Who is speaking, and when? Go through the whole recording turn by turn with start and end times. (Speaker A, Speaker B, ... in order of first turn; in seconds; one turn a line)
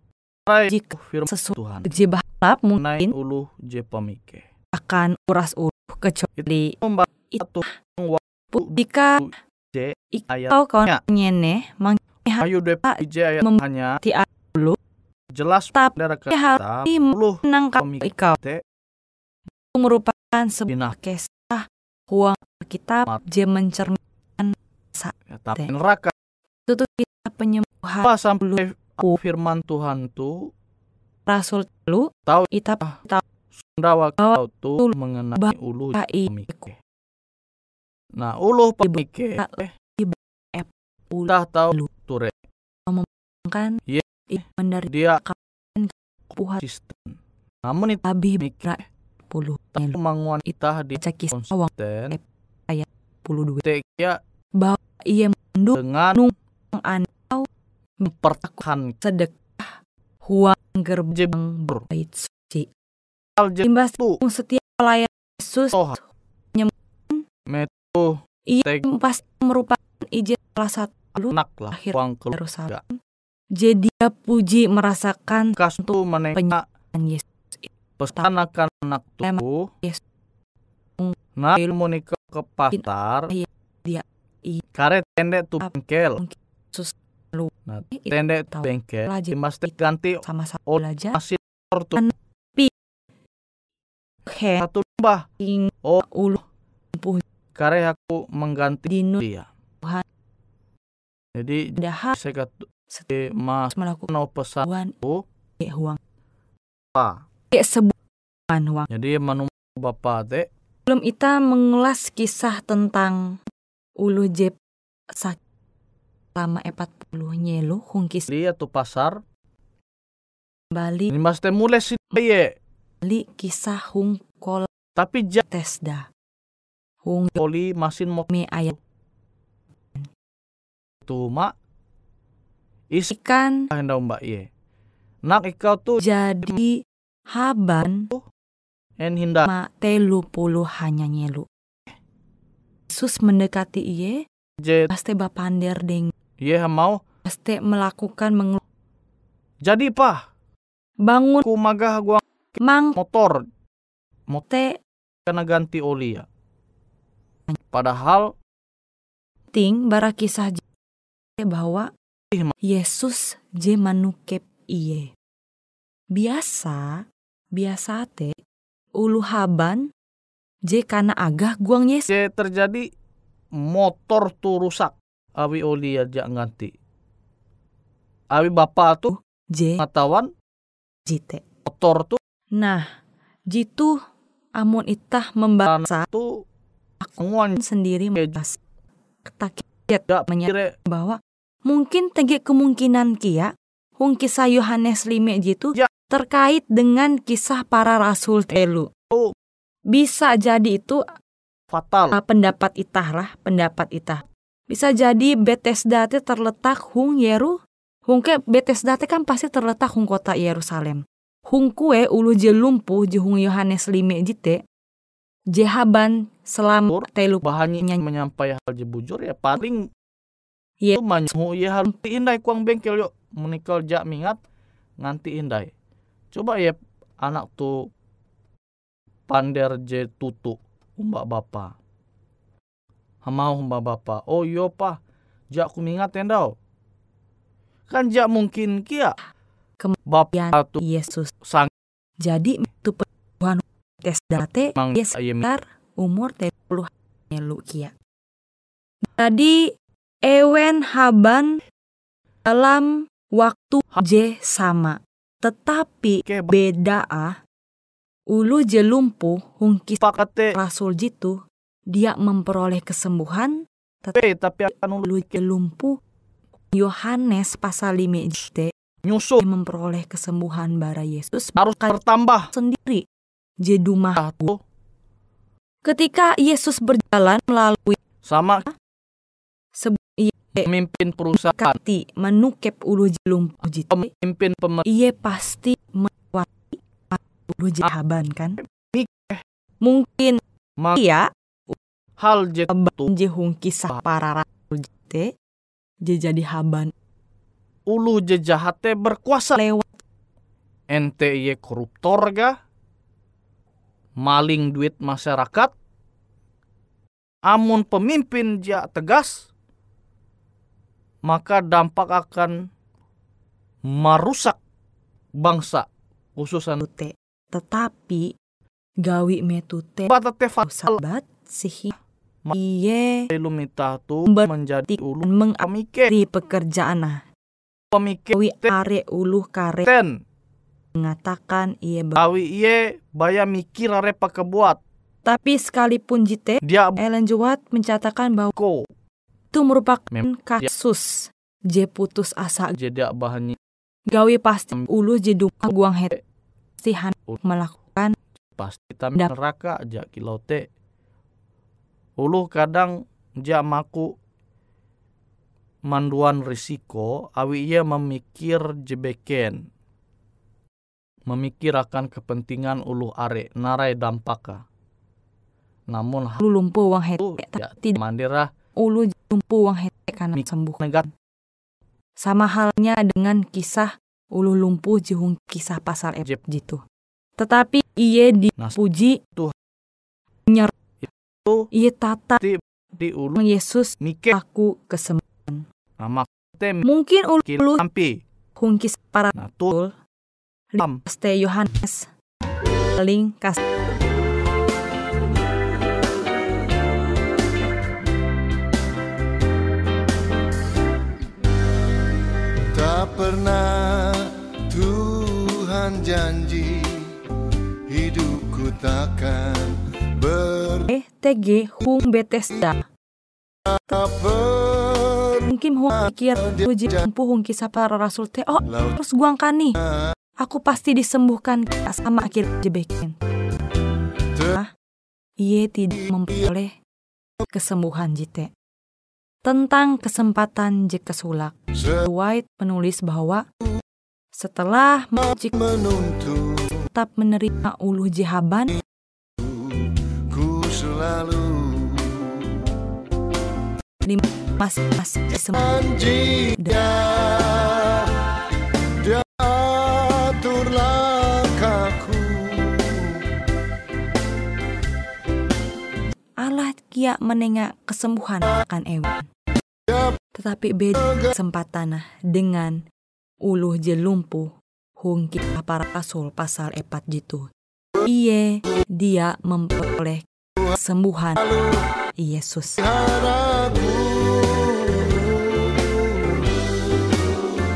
Speaker A: 0.5-1.9
Speaker B: 0.7-3.1
Speaker A: 2.8-4.5
Speaker B: 4.7-7.7
Speaker A: 6.4-11.0
Speaker B: 8.5-9.2
Speaker B: 10.1-14.8
Speaker A: 12.4-14.0
Speaker A: 15.3-18.6
Speaker B: 15.7-18.4
Speaker B: 19.7-25.7
Speaker A: 20.7-20.9
Speaker A: 25.3-26.1
Speaker B: 26.7-29.2
Speaker A: 28.0-30.5
Speaker B: 31.3-33.2
Speaker A: 32.3-33.0
Speaker A: 33.6-36.8
Speaker B: 34.2-36.7
Speaker A: 38.2-39.7
Speaker B: 38.9-41.9
Speaker A: 41.3-42.4
Speaker B: 42.9-46.6
Speaker A: 44.9-45.2
Speaker A: 46.6-48.7
Speaker B: 48.0-50.0
Speaker A: 49.8-52.2
Speaker B: 51.0-53.6
Speaker A: 53.6-54.2
Speaker B: 54.6-57.5
Speaker A: 55.8-56.2
Speaker B: 58.0-62.7
Speaker A: 58.1-59.0
Speaker A: 61.1-61.8
Speaker A: 63.4-64.2
Speaker B: 63.6-65.8
Speaker B: 66.5-67.2
Speaker A: 67.5-68.8
Speaker B: 68.5-73.0
Speaker A: 71.3-72.8
Speaker B: 73.5-77.7
Speaker A: 75.6-76.6
Speaker A: 78.0-79.7
Speaker B: 79.2-80.0
Speaker B: 81.0-81.7
Speaker A: 81.4-83.3
Speaker B: 82.7-84.6
Speaker A: 84.7-86.2
Speaker B: 86.2-89.3
Speaker A: 87.7-92.0
Speaker B: 90.2-91.2
Speaker B: 92.0-92.7
Speaker B: 94.3-94.7
Speaker A: 94.6-95.3
Speaker B: 95.4-96.4
Speaker B: 97.0-97.2
Speaker A: 97.5-99.5
Speaker B: 98.9-99.2
Speaker A: 101.3-105.2
Speaker B: 101.8-102.2
Speaker B: 103.7-104.1
Speaker B: 104.6-105.0
Speaker B: 105.6-106.0
Speaker A: 107.0-107.2
Speaker B: 107.5-107.9
Speaker B: 108.5-108.9
Speaker A: 108.9-110.5
Speaker B: 110.9-113.4
Speaker B: 114.0-114.6
Speaker B: 116.4-118.3
Speaker A: 118.3-119.2
Speaker B: 120.7-121.1
Speaker A: 121.1-122.5
Speaker B: 123.0-124.7
Speaker A: 125.0-125.4
Speaker B: 125.5-126.1
Speaker B: 127.0-127.4
Speaker A: 127.4-128.3
Speaker B: 128.3-128.8
Speaker A: 131.1-131.5
Speaker B: 133.1-133.7
Speaker A: 133.7-134.5
Speaker A: 135.2-136.5
Speaker B: 136.0-136.8
Speaker B: 137.3-138.1
Speaker A: 139.0-139.5
Speaker B: 139.5-141.5
Speaker B: 142.9-144.2
Speaker A: 144.6-144.9
Speaker B: 144.9-146.1
Speaker A: 146.4-147.0
Speaker B: 147.2-148.6
Speaker A: 149.6-150.2
Speaker B: 151.0-151.5
Speaker A: 151.4-152.2
Speaker B: 152.6-153.0
Speaker A: 152.9-153.5
Speaker B: 154.5-154.8
Speaker A: 155.3-156.3
Speaker A: 157.7-158.3
Speaker B: 159.5-160.6
Speaker B: 161.4-161.9
Speaker B: 162.6-165.1
Speaker B: 166.1-168.4
Speaker B: 169.0-169.9
Speaker B: 170.7-172.1
Speaker A: 172.1-172.9
Speaker A: 173.6-176.7
Speaker A: 178.3-179.1
Speaker B: 179.1-179.8
Speaker A: 179.8-180.3
Speaker B: 181.1-181.4
Speaker A: 181.7-182.2
Speaker B: 182.6-182.9
Speaker B: 183.5-184.0
Speaker B: 184.6-186.1
Speaker A: 185.7-186.4
Speaker B: 187.0-188.6
Speaker A: 187.2-187.6
Speaker B: 189.2-198.9
Speaker A: 190.1-190.7
Speaker B: 199.9-201.1
Speaker A: 201.7-202.2
Speaker B: 202.1-207.6
Speaker B: 208.1-214.6
Speaker B: 215.5-218.0
Speaker A: 216.9-219.9
Speaker A: 221.0-224.4
Speaker A: 225.0-225.7
Speaker A: 226.3-227.9
Speaker A: 229.3-231.8
Speaker A: 233.2-235.0
Speaker A: 235.5-236.6
Speaker A: 237.9-239.2
Speaker B: 239.8-241.3
Speaker A: 240.1-240.8
Speaker A: 241.4-241.7
Speaker B: 242.2-247.9
Speaker A: 244.8-245.5
Speaker B: 249.2-249.7
Speaker B: 250.2-251.6
Speaker B: 252.4-257.4
Speaker A: 256.2-256.5
Speaker B: 258.3-264.2
Speaker A: 260.0-260.6
Speaker A: 264.2-265.1
Speaker B: 265.0-266.0
Speaker B: 266.7-268.7
Speaker A: 269.1-269.4
Speaker B: 269.4-272.0
Speaker A: 271.6-272.5
Speaker B: 272.5-273.0
Speaker B: 273.6-274.5
Speaker A: 274.2-274.6
Speaker B: 275.9-278.0
Speaker A: 278.2-278.6
Speaker B: 279.8-280.7
Speaker A: 280.6-281.8
Speaker B: 281.3-284.1
Speaker A: 283.9-284.9
Speaker B: 284.9-288.6
Speaker A: 288.6-289.4
Speaker B: 289.8-290.4
Speaker B: 290.9-291.8
Speaker A: 292.2-293.1
Speaker B: 292.7-295.3
Speaker B: 296.0-296.9
Speaker A: 297.9-299.6
Speaker B: 299.6-299.9
Speaker A: 300.9-302.6
Speaker A: 304.2-305.7
Speaker A: 307.5-309.4
Speaker A: 311.3-312.7
Speaker A: 313.9-314.6
Speaker A: 315.4-315.9
Speaker A: 316.4-316.8
Speaker B: 316.8-318.3
Speaker B: 319.0-322.0
Speaker A: 320.1-321.0
Speaker B: 322.5-323.3
Speaker A: 323.3-326.1
Speaker B: 324.3-327.2
Speaker A: 327.9-328.7
Speaker B: 328.3-329.9
Speaker A: 329.8-330.2
Speaker B: 331.0-332.2
Speaker A: 332.2-334.8
Speaker B: 335.3-338.5
Speaker A: 336.6-337.0
Speaker A: 338.5-338.9
Speaker B: 339.5-342.8
Speaker A: 340.1-340.7
Speaker A: 342.8-343.6
Speaker B: 344.1-346.2
Speaker B: 346.8-348.2
Speaker A: 348.6-350.7
Speaker A: 352.2-354.1
Speaker A: 355.9-359.6
Speaker A: 361.3-364.6
Speaker A: 365.9-366.4
Speaker B: 366.4-368.0
Speaker A: 367.2-368.5
Speaker B: 368.8-370.8
Speaker A: 370.4-371.1
Speaker B: 372.2-376.8
Speaker B: 377.4-379.2
Speaker B: 380.5-380.7
Speaker A: 381.0-381.7
Speaker B: 381.7-382.4
Speaker A: 382.4-383.4
Speaker B: 383.4-385.6
Speaker A: 384.0-384.4
Speaker A: 386.0-386.9
Speaker B: 386.8-387.8
Speaker A: 387.5-388.2
Speaker B: 388.6-389.9
Speaker A: 389.4-389.8
Speaker B: 390.7-392.1
Speaker B: 393.0-393.6
Speaker C: 402.7-407.2
Speaker C: 407.9-410.9
Speaker B: 410.9-412.8
Speaker C: 413.7-415.5
Speaker B: 415.5-419.8
Speaker C: 416.4-416.9
Speaker B: 420.4-423.2
Speaker B: 424.4-424.7
Speaker B: 425.4-426.8
Speaker B: 427.5-428.5
Speaker B: 429.4-433.4
Speaker B: 434.3-435.6
Speaker C: 435.5-436.9
Speaker B: 436.9-438.8
Speaker C: 439.4-442.6
Speaker B: 444.1-445.9
Speaker C: 445.6-448.3
Speaker C: 448.9-453.3
Speaker B: 456.4-459.3
Speaker B: 460.4-462.8
Speaker B: 463.4-467.5
Speaker B: 468.0-471.6
Speaker C: 471.4-471.9
Speaker B: 472.2-472.8
Speaker C: 472.8-477.4